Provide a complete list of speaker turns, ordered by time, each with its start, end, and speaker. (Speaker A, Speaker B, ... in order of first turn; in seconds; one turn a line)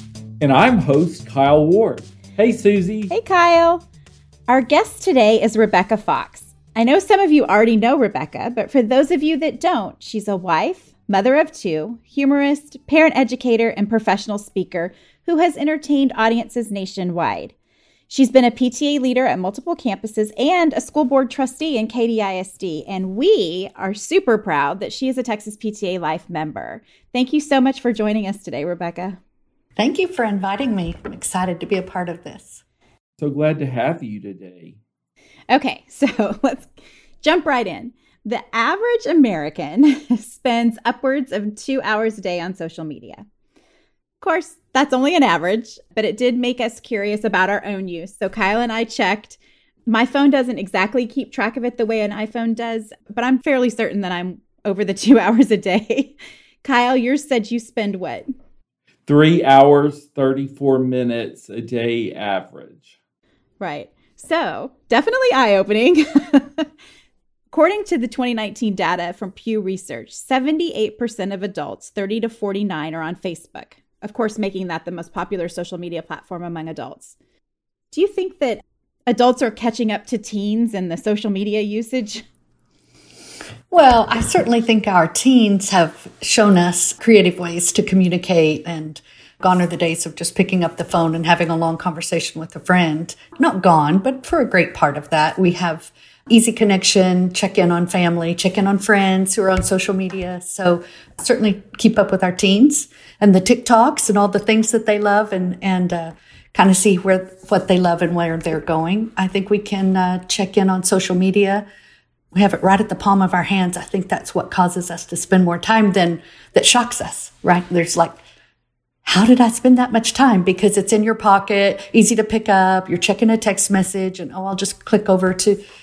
Speaker A: 0.4-3.1
Speaker B: 3.1-3.8
Speaker B: 4.5-17.6
Speaker B: 18.1-29.2
Speaker C: 29.8-32.6
Speaker A: 33.2-34.8
Speaker B: 35.5-43.2
Speaker B: 44.2-58.3
Speaker A: 59.1-63.0
Speaker B: 63.6-66.7
Speaker B: 67.5-77.2
Speaker B: 77.9-82.2
Speaker C: 83.7-111.7
Speaker C: 112.3-118.2
Speaker C: 119.0-125.6